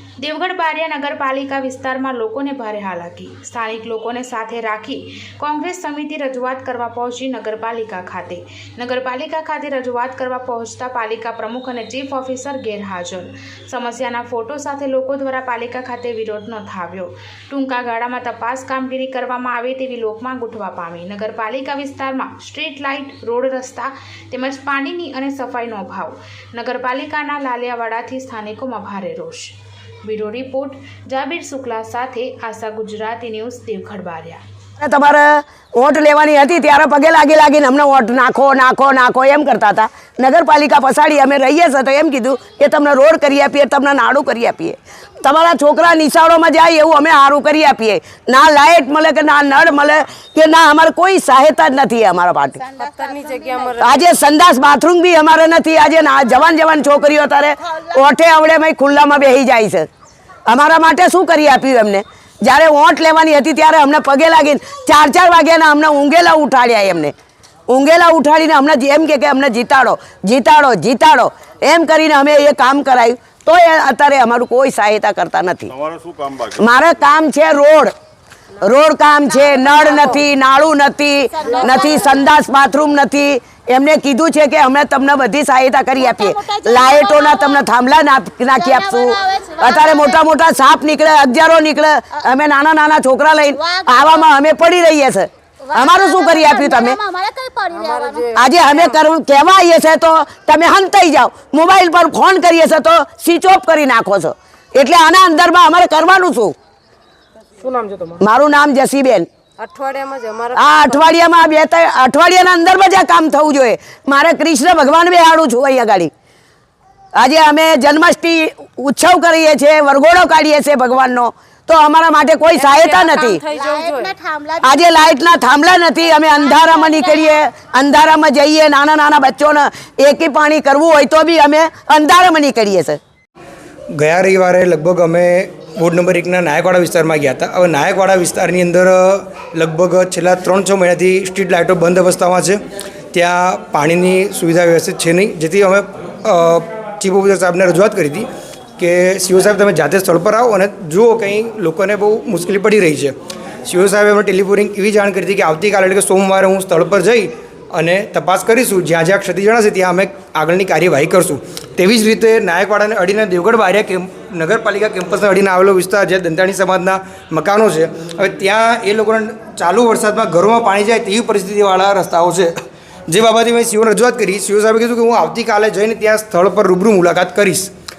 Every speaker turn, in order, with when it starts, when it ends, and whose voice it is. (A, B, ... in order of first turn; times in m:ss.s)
0:00.2-0:34.4 A
0:34.8-0:52.6 B
0:52.7-0:54.0 C
0:52.8-0:53.6 D
0:53.8-0:59.9 B
1:00.4-1:07.1 B
1:07.7-1:15.7 B
1:16.5-1:17.9 B
1:18.6-1:37.0 B
1:19.8-1:20.2 C
1:21.4-1:22.1 C
1:21.4-1:21.9 D
1:26.4-1:27.0 D
1:27.0-1:27.4 C
1:28.7-1:30.1 C
1:35.7-1:36.9 C
1:36.8-1:38.2 D
1:37.5-1:39.0 C
1:38.3-1:46.5 B
1:47.6-1:48.2 C
1:48.2-1:49.3 B
1:49.6-1:51.1 C
1:50.5-1:56.1 B
1:57.1-2:03.4 B
2:02.5-2:04.2 C
2:03.5-2:04.7 D
2:04.6-2:13.0 B
2:06.4-2:07.1 D
2:13.9-2:22.6 E
2:23.1-2:52.5 E
2:53.1-2:57.7 E